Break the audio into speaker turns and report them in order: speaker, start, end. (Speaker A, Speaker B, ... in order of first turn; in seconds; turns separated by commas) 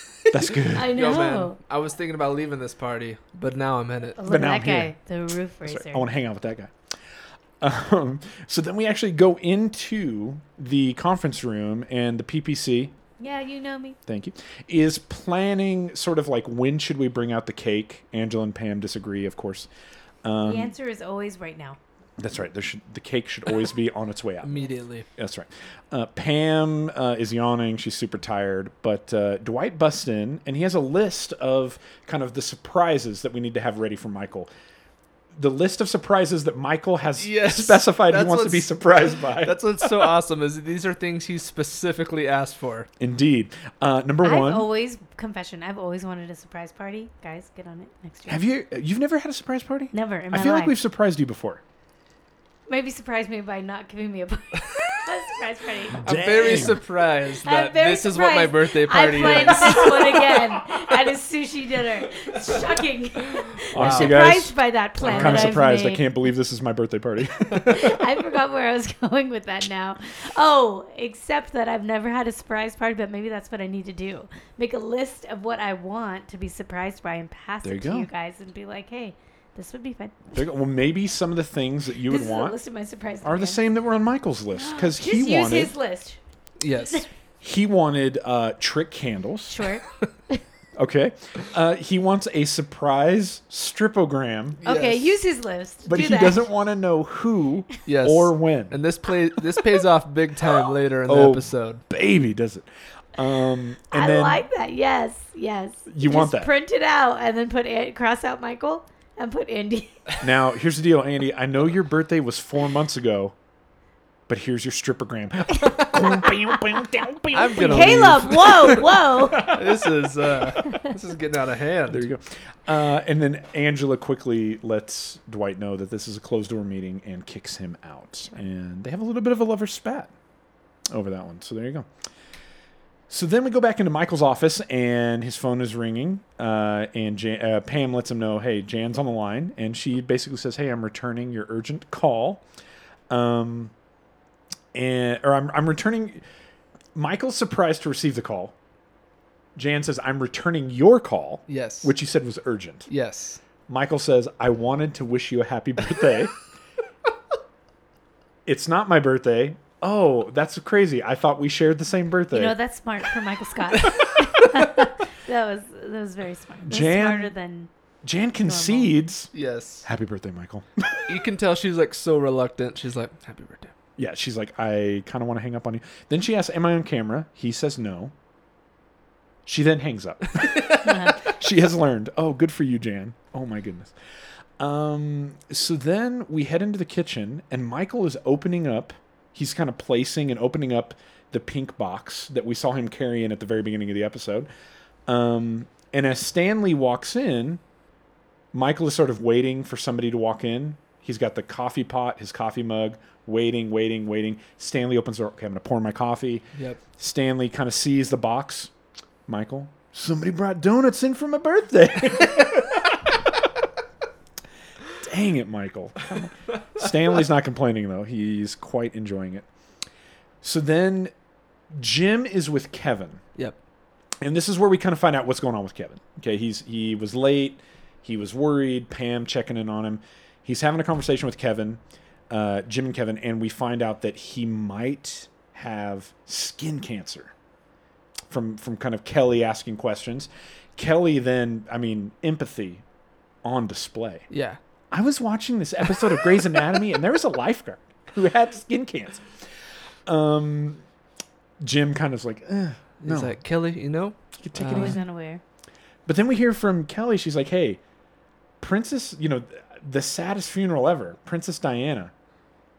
Speaker A: 0.3-1.0, Speaker B: 0.7-1.6, Speaker C: 0.8-4.2, Speaker B: 4.2-6.1, Speaker A: 4.2-4.9, Speaker A: 5.6-6.7, Speaker A: 7.6-12.9, Speaker B: 13.2-14.0, Speaker A: 14.1-19.7, Speaker A: 20.2-20.7, Speaker B: 20.4-21.8, Speaker A: 22.2-34.5, Speaker C: 24.4-25.1, Speaker A: 35.3-40.1, Speaker C: 37.2-42.9, Speaker A: 43.0-44.7, Speaker B: 44.2-48.4, Speaker A: 48.3-51.6, Speaker B: 49.9-50.8, Speaker B: 52.7-56.8, Speaker A: 55.9-56.8, Speaker C: 56.0-60.2, Speaker B: 57.4-66.1, Speaker A: 59.1-60.0, Speaker A: 63.7-68.0, Speaker C: 63.8-64.2, Speaker C: 65.0-65.6, Speaker B: 67.7-80.4, Speaker A: 77.6-78.1, Speaker A: 80.3-82.5, Speaker B: 82.1-83.6, Speaker A: 83.2-85.7, Speaker B: 84.5-86.2, Speaker C: 86.6-87.0, Speaker B: 86.7-87.0, Speaker A: 87.4-89.7, Speaker B: 89.5-90.4, Speaker A: 90.8-94.6, Speaker C: 94.6-95.2, Speaker B: 94.7-96.4, Speaker A: 95.8-98.8, Speaker C: 97.8-101.8, Speaker A: 101.1-104.5, Speaker B: 103.9-110.1, Speaker A: 105.9-106.5, Speaker A: 110.2-113.3, Speaker A: 114.3-119.9, Speaker C: 117.3-122.0, Speaker B: 117.5-119.5, Speaker A: 121.9-130.1, Speaker A: 130.9-131.9, Speaker A: 133.1-142.4, Speaker A: 143.1-143.7, Speaker A: 144.7-146.2, Speaker A: 146.9-148.5, Speaker A: 149.6-152.9, Speaker C: 151.5-151.9, Speaker C: 152.9-153.4, Speaker A: 153.7-156.3, Speaker A: 158.4-162.6, Speaker B: 162.3-167.7, Speaker A: 166.6-167.3, Speaker A: 168.0-169.3, Speaker B: 168.4-168.9, Speaker C: 169.3-169.8, Speaker A: 169.8-171.2, Speaker C: 171.1-173.7, Speaker A: 174.0-178.1, Speaker A: 179.4-183.9, Speaker B: 180.8-181.2, Speaker A: 184.6-194.5, Speaker A: 195.1-197.6, Speaker A: 198.5-206.4, Speaker A: 207.0-208.7, Speaker A: 209.3-213.2, Speaker A: 215.0-219.5, Speaker A: 220.4-221.1, Speaker A: 221.7-223.2, Speaker A: 224.2-237.3, Speaker A: 238.3-242.8, Speaker A: 243.4-244.3, Speaker C: 244.3-244.6, Speaker A: 244.9-249.3, Speaker A: 250.1-250.8, Speaker A: 251.6-253.4, Speaker C: 253.0-255.0, Speaker A: 254.4-255.0, Speaker B: 254.7-255.4, Speaker A: 256.1-257.8, Speaker A: 258.6-262.1